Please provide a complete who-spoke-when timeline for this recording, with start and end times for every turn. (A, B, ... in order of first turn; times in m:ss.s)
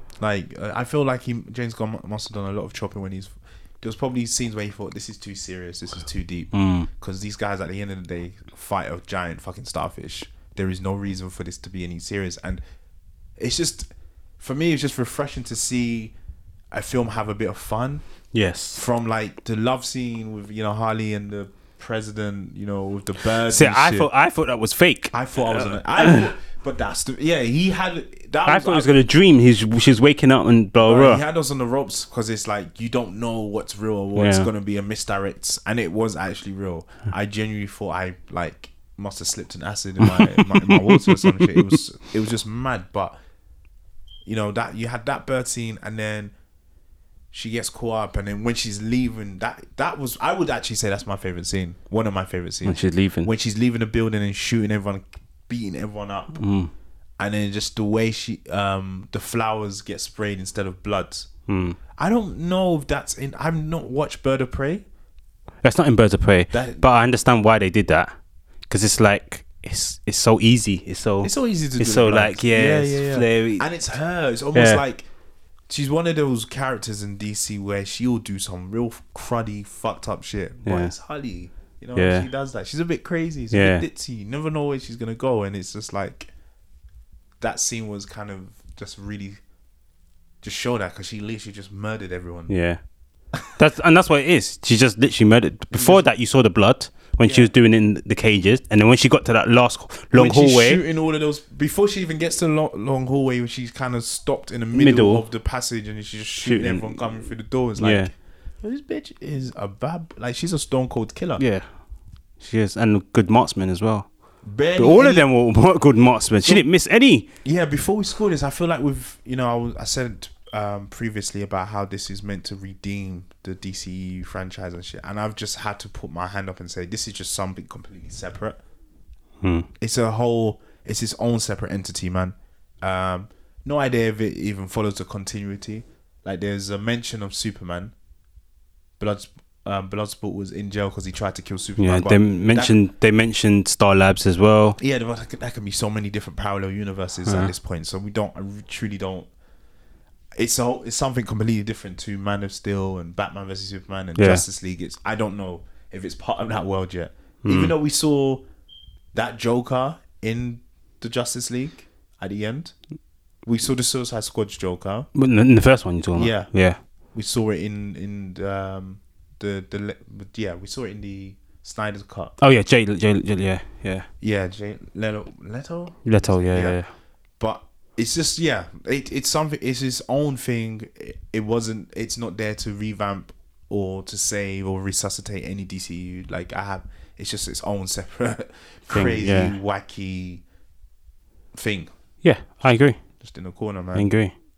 0:00.2-0:12.6 A
0:06.5-0:06.9 B
0:13.4-0:16.2 A
0:16.7-0:18.0 A
0:18.3-0:18.8 B
0:18.8-0:24.1 A
0:23.5-0:26.2 B
0:25.1-0:28.9 A
0:28.5-0:31.2 B
0:30.8-0:43.2 A
0:34.2-0:34.5 B
0:40.4-0:41.7 B
0:44.2-0:46.3 A
0:47.3-0:56.4 A
0:52.6-0:53.3 B
0:56.4-0:56.7 B
0:57.2-1:01.3 A
1:01.5-1:01.8 B
1:02.0-1:04.8 A
1:05.6-1:08.1 B
1:06.5-1:06.8 A
1:08.7-1:13.6 B
1:11.2-1:15.1 A
1:14.5-1:14.8 B
1:15.7-1:26.3 A
1:20.6-1:20.9 B
1:22.0-1:22.3 B
1:23.5-1:23.8 B
1:27.4-1:29.4 A
1:30.4-1:32.5 A
1:32.5-1:32.8 B
1:33.6-1:40.8 B
1:35.7-1:36.1 A
1:37.2-1:37.5 A
1:40.1-1:51.4 A
1:44.7-1:45.2 B
1:46.4-1:47.1 B
1:47.8-1:48.1 B
1:51.4-1:51.7 B
1:52.4-1:54.1 B
1:54.4-1:55.3 A
1:54.8-1:57.3 B
1:57.4-2:08.6 A
2:09.4-2:09.7 B
2:09.8-2:17.9 A
2:19.0-2:22.8 A
2:21.8-2:24.8 B
2:24.8-2:29.3 A
2:27.2-2:27.5 B
2:30.4-2:38.4 A
2:34.2-2:34.4 B
2:37.4-2:37.7 B
2:39.1-2:42.8 A
2:43.4-2:45.1 A
2:45.2-2:46.8 B
2:46.2-2:46.6 A
2:47.1-2:52.4 A
2:52.4-2:54.1 B
2:54.2-2:56.8 A
2:56.0-2:56.9 B
2:57.4-3:10.4 A
3:08.9-3:09.6 B
3:11.5-3:11.9 A
3:12.2-3:13.0 B
3:12.4-3:14.1 A
3:14.0-3:14.3 B